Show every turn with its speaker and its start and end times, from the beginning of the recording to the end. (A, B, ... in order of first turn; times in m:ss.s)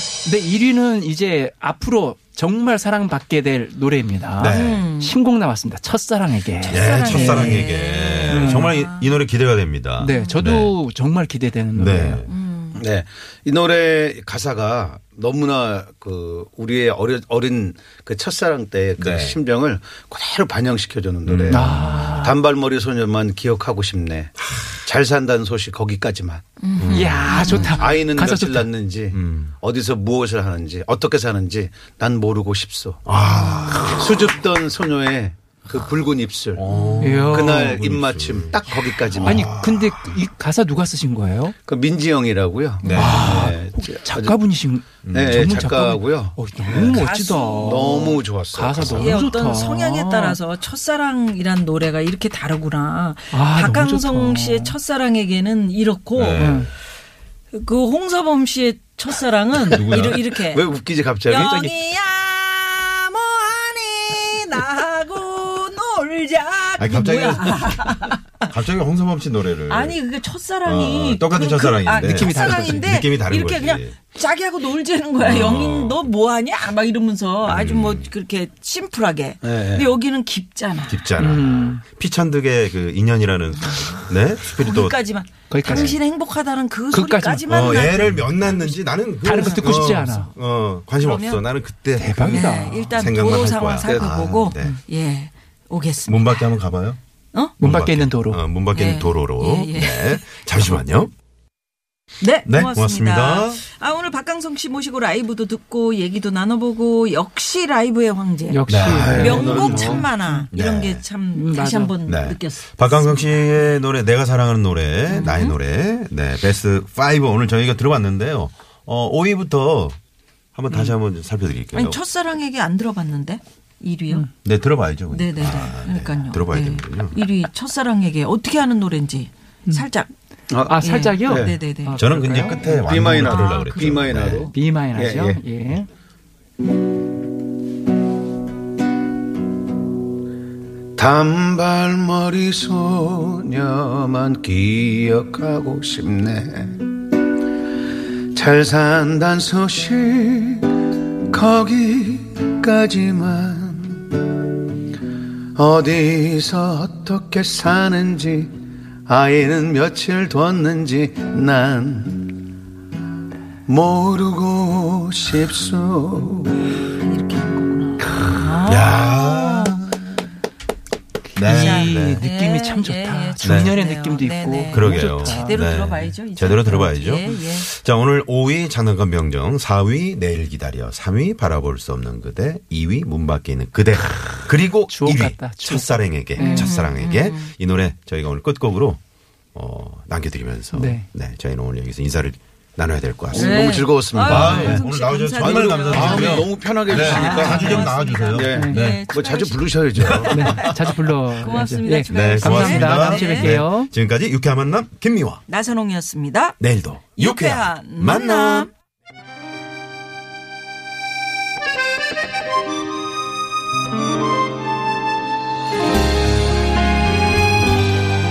0:00.2-0:07.7 A
0:04.4-0:04.9 B
0:04.4-0:05.2 C
0:06.6-0:10.7 B
0:06.7-0:09.2 C
0:08.3-0:08.7 A
0:10.0-0:12.2 A
0:10.0-0:10.4 C
0:11.7-0:12.3 B
0:12.2-0:12.8 C
0:12.7-0:26.4 D
0:19.0-0:19.4 B
0:21.2-0:21.8 B
0:21.5-0:22.4 A
0:26.6-0:28.0 C
0:26.8-0:27.6 B
0:26.9-0:28.7 A
0:27.4-0:36.6 D
0:29.1-0:29.6 B
0:33.0-0:34.3 B
0:36.5-0:40.2 B
0:36.7-0:37.1 C
0:37.0-0:37.8 A
0:37.3-0:39.5 D
0:39.2-0:41.5 A
0:41.6-0:44.4 D
0:42.8-0:43.4 B
0:42.8-0:43.1 C
0:42.9-0:50.4 A
0:45.0-0:45.6 B
0:45.1-0:47.0 D
0:46.7-0:48.2 C
0:47.6-0:49.1 D
0:48.8-0:49.1 B
0:48.8-0:56.6 C
0:53.3-0:54.7 A
0:56.1-0:56.7 B
0:56.4-0:56.7 A
0:57.5-1:00.6 C
0:59.6-1:00.2 B
1:00.5-1:01.7 D
1:01.2-1:08.4 C
1:06.8-1:10.0 B
1:09.7-1:21.1 C
1:10.6-1:14.0 B
1:12.0-1:13.0 A
1:15.2-1:16.0 B
1:17.5-1:18.1 B
1:19.4-1:19.9 D
1:20.9-1:25.0 B
1:21.2-1:21.8 A
1:23.6-1:24.0 C
1:24.5-1:30.3 C
1:25.5-1:26.0 A
1:25.6-1:26.0 B
1:26.9-1:27.8 A
1:27.5-1:34.8 B
1:29.2-1:30.3 A
1:30.9-1:31.4 C
1:31.9-1:33.1 A
1:32.3-1:36.5 C
1:33.8-1:34.1 D
1:36.0-1:37.0 B
1:37.6-1:38.4 A
1:37.6-1:41.1 B
1:38.7-1:40.8 C
1:42.2-1:53.4 C
1:42.4-1:43.6 B
1:48.5-1:50.4 A
1:48.7-1:51.0 B
1:48.8-1:50.0 D
1:51.3-1:51.9 A
1:52.0-2:00.0 B
1:55.1-1:55.6 C
2:00.5-2:02.0 B
2:01.7-2:04.3 C
2:04.4-2:07.2 B
2:05.1-2:10.1 C
2:10.5-2:11.5 D
2:10.6-2:12.6 A
2:10.8-2:12.0 C
2:12.0-2:14.5 B
2:12.8-2:15.4 D
2:13.3-2:13.9 C
2:14.3-2:15.9 A
2:21.0-2:26.8 D
2:28.3-2:34.2 D
2:35.6-2:38.5 D
2:39.1-2:42.4 D
2:43.7-2:46.7 D
2:46.7-2:49.8 C
2:48.6-2:50.0 B
2:51.3-2:55.6 A
2:51.3-2:52.2 B
2:51.4-2:57.7 C
2:53.4-2:53.7 B
2:54.7-3:09.0 B
3:04.9-3:06.7 A
3:06.4-3:07.5 C
3:09.5-3:19.1 B
3:10.7-3:11.1 A
3:13.3-3:23.5 C
3:13.3-3:14.8 D
3:14.4-3:14.7 A
3:15.4-3:20.5 D
3:17.2-3:17.8 A
3:18.5-3:18.8 A
3:20.0-3:20.6 B
3:20.3-3:23.9 A
3:22.1-3:25.4 B
3:25.5-3:26.6 C
3:26.6-3:28.7 B
3:27.2-3:28.7 C